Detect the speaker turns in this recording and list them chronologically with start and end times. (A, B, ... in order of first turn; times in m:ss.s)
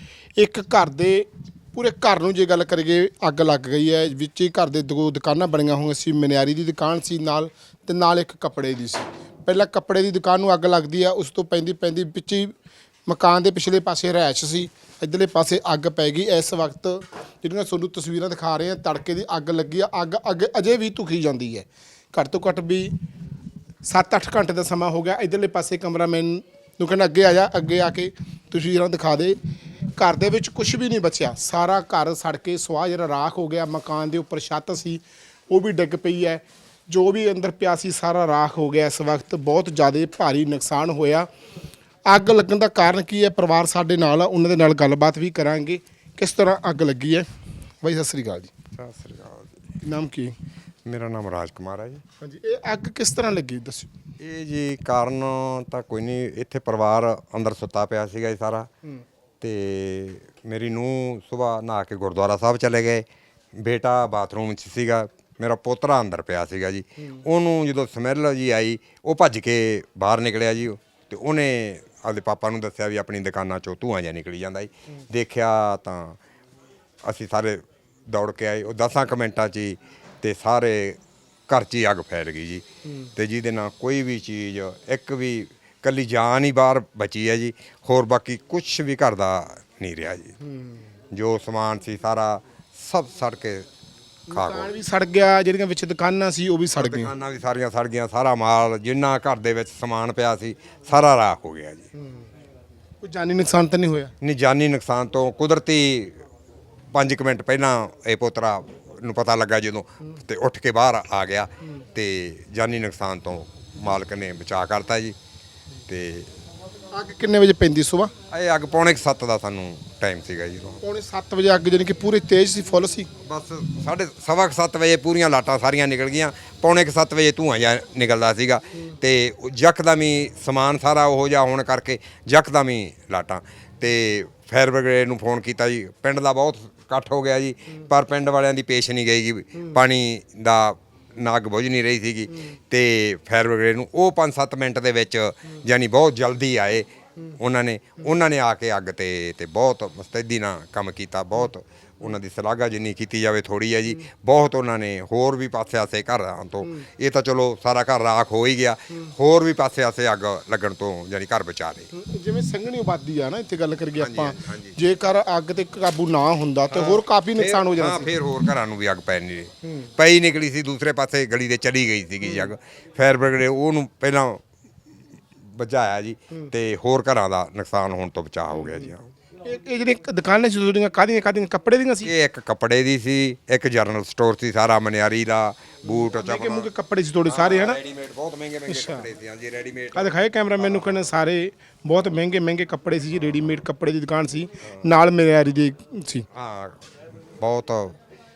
0:00.4-0:12.5 A
0:13.1-0:22.9 A
0:23.8-0:29.4 A
0:30.0-0:41.3 A
0:42.1-0:47.2 A
0:47.8-0:48.5 A
0:48.8-0:49.6 B
0:49.8-0:50.3 A
0:50.9-0:52.0 B
0:52.2-0:53.9 A
0:54.2-0:58.7 B
0:59.4-1:03.0 B
1:03.6-1:16.2 B
1:17.0-1:30.3 B
1:30.4-1:30.8 A
1:31.1-1:33.7 B
1:34.3-1:37.1 A
1:34.3-1:34.7 B
1:36.8-1:41.9 B
1:42.0-1:42.3 A
1:43.0-1:44.1 A
1:44.2-1:46.2 B
1:46.9-1:55.2 B
1:55.9-1:56.3 B
1:56.9-1:58.1 A
1:58.3-2:00.8 B
2:00.8-2:03.1 A
2:03.2-2:41.9 B
2:41.9-2:48.1 A
2:44.0-2:44.8 B
2:46.7-2:54.4 B
2:52.2-2:52.5 A
2:55.5-2:59.0 B
2:59.4-3:02.1 A
3:02.0-3:06.7 B
3:05.9-3:07.8 A
3:07.3-3:11.0 B
3:08.7-3:09.0 A
3:10.0-3:16.3 A
3:16.3-3:16.8 B
3:17.4-3:18.0 B